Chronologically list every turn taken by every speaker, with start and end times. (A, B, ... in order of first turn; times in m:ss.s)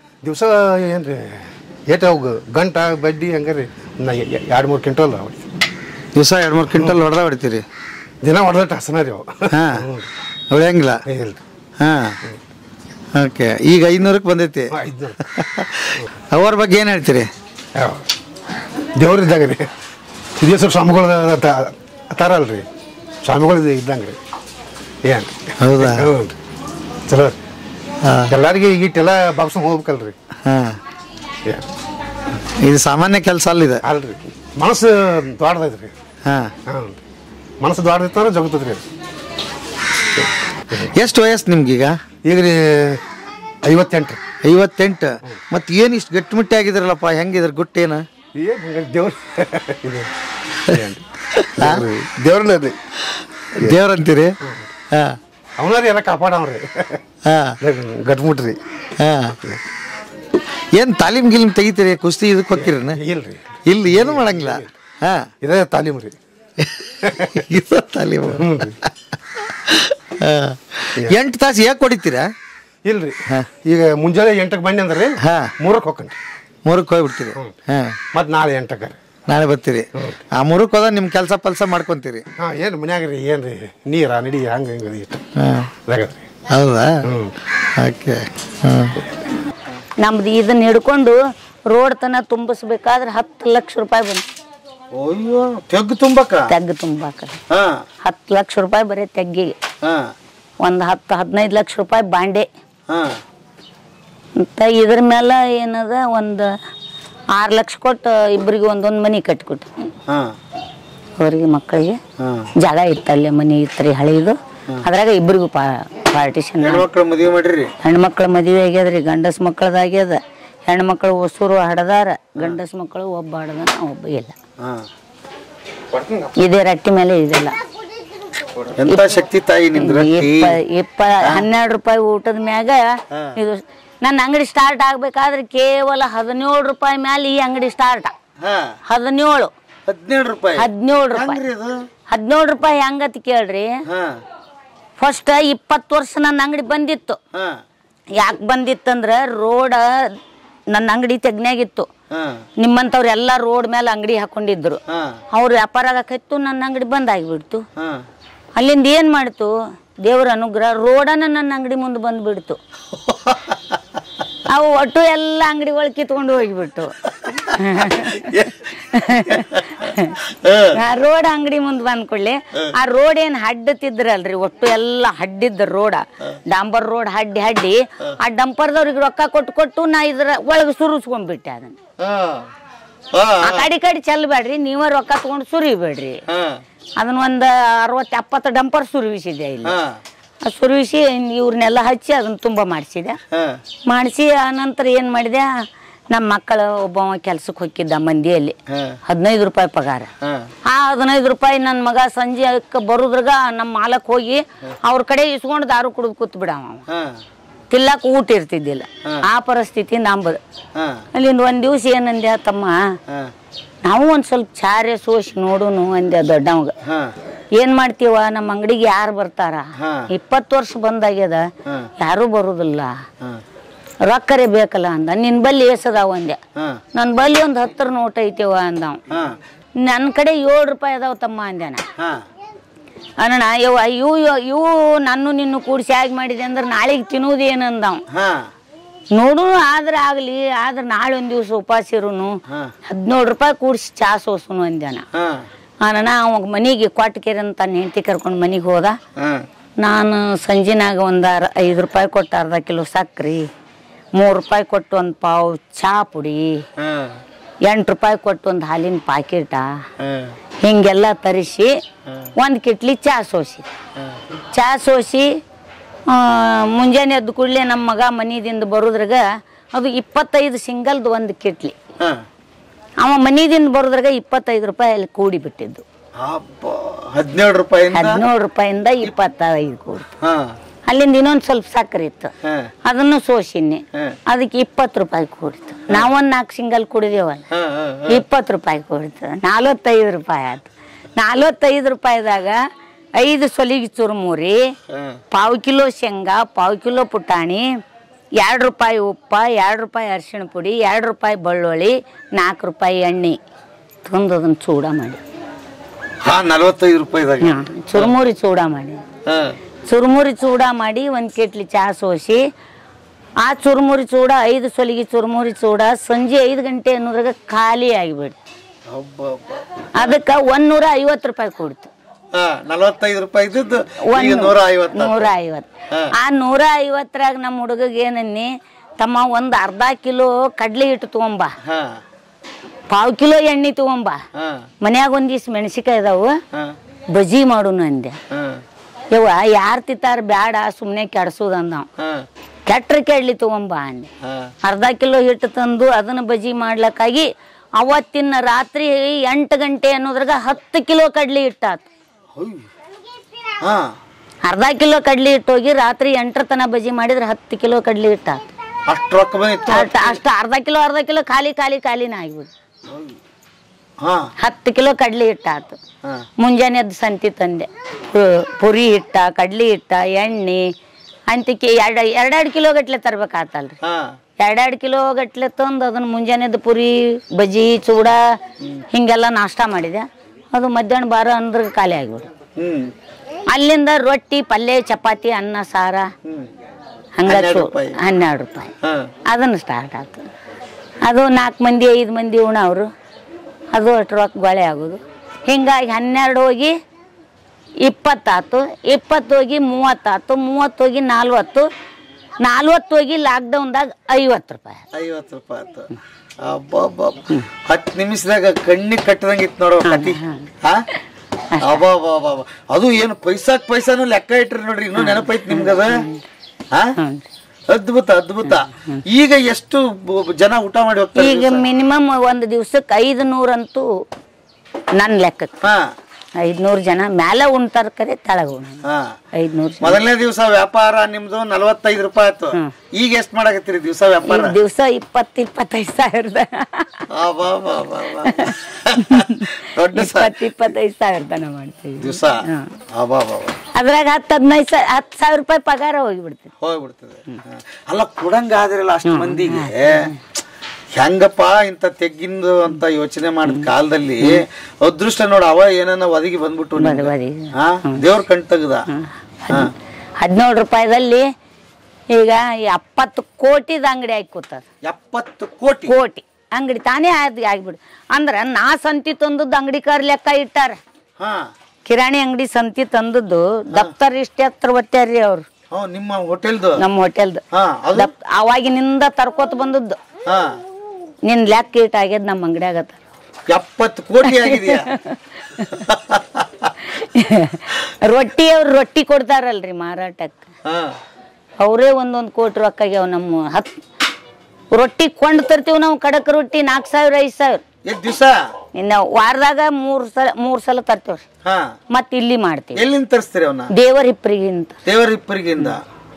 0:00.2-0:05.4 A
0:06.2-0:07.6 B
0:08.2-0:10.1 A
0:09.5-0:09.8 B
0:10.5-0:11.0 B
0:11.1-0:11.4 A
0:11.8-0:12.2 B
0:13.1-0:14.7 B
0:14.7-0:15.2 A
0:15.3-0:17.3 B
0:17.8-0:18.0 A
0:19.0-0:19.7 A
0:20.4-0:22.6 A
0:23.2-0:24.2 A
0:25.0-0:26.4 A
0:25.6-0:26.1 B
0:27.1-0:27.4 A
0:28.0-0:28.3 B
0:28.3-0:30.1 A
0:30.4-0:30.8 B
0:32.4-0:33.8 B
0:33.8-0:35.9 A
0:36.2-0:36.5 B
0:36.7-0:37.0 A
0:37.6-0:38.8 A
0:40.2-0:40.9 A
0:40.9-0:42.0 B
0:42.2-0:43.0 A
0:43.6-0:44.2 A
0:44.4-0:48.0 B
0:48.4-0:50.1 A
0:50.6-0:51.0 A
0:51.4-0:51.8 B
0:51.6-0:52.8 A
0:53.6-0:54.3 B
0:54.4-0:54.7 A
0:54.9-0:55.2 B
0:55.6-0:57.0 A
0:57.2-0:57.6 B
0:57.6-0:58.6 A
0:59.0-0:59.4 B
1:00.7-1:03.0 B
1:02.6-1:04.7 A
1:03.6-1:05.3 B
1:05.4-1:06.2 A
1:07.0-1:07.4 A
1:07.3-1:08.9 B
1:08.3-1:08.7 A
1:09.6-1:12.3 B
1:12.8-1:16.2 A
1:15.2-1:15.5 B
1:16.6-1:18.0 B
1:18.1-1:19.0 A
1:19.3-1:22.2 B
1:22.4-1:25.2 A
1:25.4-1:25.7 B
1:25.9-1:26.2 A
1:26.5-1:27.0 B
1:27.0-1:27.3 A
1:27.7-1:28.9 B
1:30.0-1:31.2 C
1:31.7-1:34.2 C
1:34.9-1:36.5 B
1:36.5-1:37.4 C
1:37.5-1:37.8 B
1:38.0-1:39.5 C
1:39.8-1:40.1 B
1:40.6-1:42.5 C
1:42.9-1:43.2 B
1:44.4-1:46.5 C
1:47.4-1:49.7 C
1:50.1-1:50.3 B
1:51.2-1:52.0 C
1:52.2-1:52.5 B
1:52.6-1:56.8 C
1:56.6-1:57.7 B
1:57.8-2:04.3 C
2:05.9-2:06.3 B
2:06.4-2:07.6 C
2:08.8-2:10.5 B
2:09.8-2:18.1 C
2:13.1-2:13.4 B
2:18.4-2:18.7 B
2:18.9-2:19.5 C
2:19.9-2:21.8 B
2:20.6-2:21.4 C
2:22.1-2:23.7 C
2:23.9-2:24.2 B
2:25.0-2:27.2 C
2:27.3-2:27.6 B
2:28.2-2:30.1 C
2:30.7-2:31.9 C
2:32.1-2:32.4 B
2:32.6-2:34.8 C
2:34.9-2:35.2 B
2:35.3-2:37.6 C
2:37.8-2:38.0 B
2:38.6-2:39.5 C
2:40.0-2:42.6 C
2:43.0-2:43.6 B
2:44.5-2:50.2 C
2:47.3-2:50.8 B
2:50.7-3:01.8 C
3:02.0-3:02.4 B
3:03.1-3:03.7 B
3:03.4-3:06.2 C
3:06.3-3:06.6 B
3:07.0-3:09.7 C
3:09.6-3:10.0 B
3:10.4-3:13.2 C
3:13.3-3:13.6 B
3:13.9-3:15.5 C
3:16.1-3:18.6 C
3:18.7-3:19.0 B
3:19.1-3:20.1 C
3:20.2-3:20.5 B
3:20.6-3:26.8 C
3:26.9-3:27.2 B
3:27.7-3:30.4 C
3:30.7-3:31.0 B
3:31.1-3:32.8 C
3:33.8-3:36.7 C
3:36.8-3:37.1 B
3:37.6-3:41.4 C
3:39.8-3:40.0 B
3:42.0-3:42.9 C
3:44.0-3:46.4 C
3:46.9-3:49.0 C
3:49.1-3:49.4 B
3:49.8-3:51.8 C
3:53.2-3:58.0 C
3:58.1-3:58.5 B
3:59.1-4:05.0 C
4:05.1-4:05.4 B
4:05.8-4:09.0 C
4:09.2-4:09.4 B
4:09.8-4:13.5 C
4:14.2-4:16.6 C
4:16.8-4:17.1 B
4:17.6-4:19.6 C
4:20.0-4:20.3 B
4:20.6-4:21.7 C
4:22.4-4:23.6 C
4:24.5-4:25.3 C
4:26.1-4:31.7 C
4:33.0-4:35.8 C
4:36.2-4:38.2 B
4:37.9-4:40.1 C
4:40.2-4:40.5 B
4:40.9-4:42.3 C
4:42.4-4:42.7 B
4:42.8-4:47.4 C
4:47.5-4:48.2 B
4:48.1-4:52.6 C
4:53.2-4:54.6 C
4:54.9-4:55.2 B
4:55.3-4:57.6 C
4:58.4-5:03.4 C
5:04.0-5:05.2 C
5:06.2-5:08.1 B
5:07.4-5:09.0 C
5:09.3-5:09.6 B
5:09.9-5:12.4 C
5:13.4-5:18.4 C
5:18.9-5:20.2 B
5:20.0-5:21.9 C
5:22.3-5:25.3 B
5:24.1-5:31.5 C
5:31.6-5:32.0 B
5:32.9-5:34.2 C
5:34.3-5:34.6 B
5:34.8-5:36.4 C
5:37.1-5:38.2 C
5:38.3-5:38.6 B
5:39.1-5:41.9 C
5:42.0-5:42.2 B
5:42.7-5:44.1 C
5:44.2-5:44.5 B
5:44.6-5:51.9 C
5:52.3-5:52.6 B
5:53.6-5:53.9 B
5:54.4-5:58.5 C
5:58.9-6:00.2 B
5:59.7-6:02.5 C
6:02.9-6:03.2 B
6:04.0-6:04.3 B
6:04.4-6:05.8 C
6:06.4-6:10.7 C
6:11.3-6:13.8 C
6:13.8-6:14.1 B
6:14.4-6:18.2 C
6:18.9-6:22.3 C
6:22.6-6:22.9 B
6:23.5-6:26.1 C
6:26.2-6:26.5 B
6:27.2-6:28.7 C
6:27.2-6:28.0 B
6:28.8-6:29.1 B
6:29.3-6:30.2 C
6:31.0-6:32.9 C
6:33.7-6:36.8 C
6:37.8-6:41.7 C
6:42.4-6:44.8 C
6:44.9-6:45.9 B
6:46.4-6:50.8 B
6:49.8-6:50.5 C
6:51.5-6:51.8 C
6:51.6-6:56.0 B
6:55.0-6:56.2 C
6:57.0-6:57.3 C
6:57.7-7:01.6 B
6:58.4-6:59.0 C
7:01.2-7:03.9 C
7:05.0-7:05.5 C
7:05.6-7:05.9 B
7:06.4-7:08.8 C
7:08.8-7:09.2 B
7:09.3-7:10.0 C
7:09.8-7:14.6 B
7:14.2-7:17.0 C
7:17.1-7:20.3 B
7:18.2-7:22.7 C
7:22.0-7:23.6 B
7:23.7-7:26.5 C
7:26.6-7:30.1 B
7:29.0-7:30.2 C
7:31.0-7:38.8 B
7:36.8-7:38.0 C
7:38.9-7:41.2 C
7:42.1-7:44.6 C
7:44.8-7:45.9 B
7:45.9-7:50.8 C
7:51.2-7:51.5 B
7:51.8-7:55.5 C
7:55.7-7:56.8 B
7:56.8-7:57.4 C
7:57.5-7:58.1 B
7:57.9-8:00.0 C
8:00.2-8:00.6 B
8:01.2-8:03.0 C
8:03.5-8:04.9 B
8:04.2-8:05.8 C
8:05.7-8:06.7 B
8:06.9-8:10.5 C
8:10.6-8:11.0 B
8:11.6-8:13.8 C
8:14.7-8:17.6 C
8:17.8-8:18.4 B
8:18.7-8:21.2 C
8:21.4-8:21.7 B
8:21.9-8:22.8 C
8:22.7-8:23.7 B
8:23.7-8:24.8 C
8:24.8-8:25.8 B